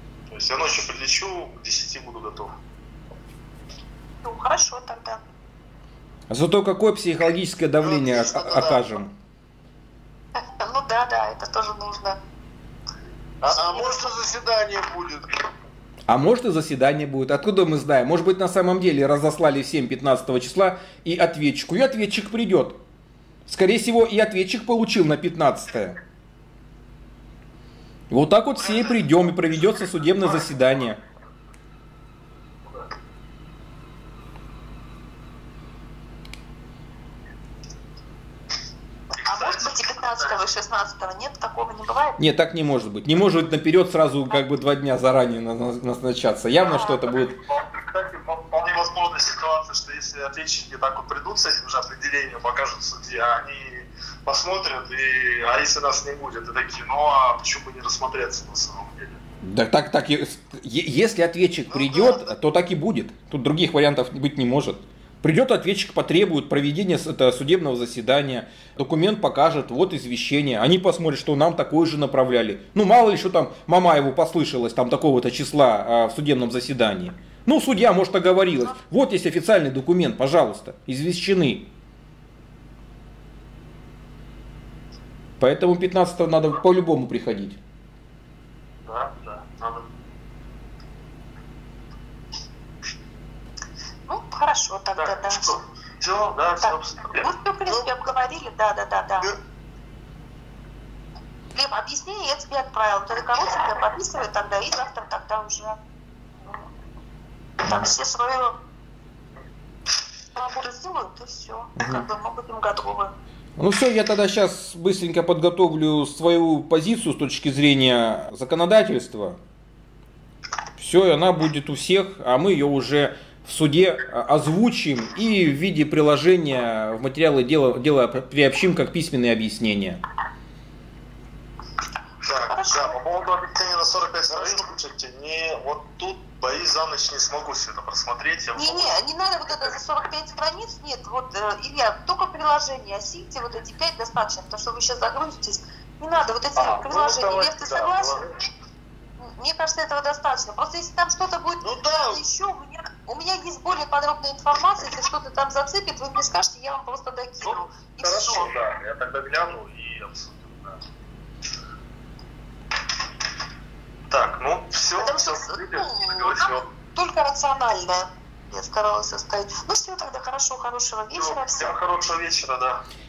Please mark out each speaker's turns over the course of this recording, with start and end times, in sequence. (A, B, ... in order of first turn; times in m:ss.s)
0:00.3-0:02.5 A
0:04.2-0:05.2 B
0:06.3-0:09.1 C
0:07.8-0:08.8 D
0:10.4-0:12.2 B
0:13.4-0:15.3 D
0:13.5-0:14.1 B
0:16.1-0:22.8 C
0:23.5-0:26.0 C
0:28.1-0:31.0 C
0:39.2-0:40.4 A
0:39.2-0:42.2 B
0:42.2-0:47.4 C
0:47.2-0:59.2 A
0:59.4-1:21.7 C
1:01.7-1:02.3 D
1:25.4-1:27.6 C
1:28.8-1:29.8 A
1:34.1-1:35.5 B
1:35.0-1:37.3 A
1:36.6-1:39.3 B
1:41.5-1:45.8 B
1:47.6-1:48.5 B
1:50.3-1:53.1 B
1:51.8-1:52.0 C
1:53.6-1:59.4 C
2:00.8-2:10.0 C
2:12.2-2:19.0 A
2:12.5-2:12.9 B
2:18.6-2:28.2 B
2:26.6-2:28.2 A
2:26.7-2:27.4 D
2:29.2-2:38.5 B
2:31.6-2:32.2 D
2:37.4-2:40.8 A
2:44.1-2:46.6 A
2:45.0-2:51.7 B
2:51.1-2:52.8 A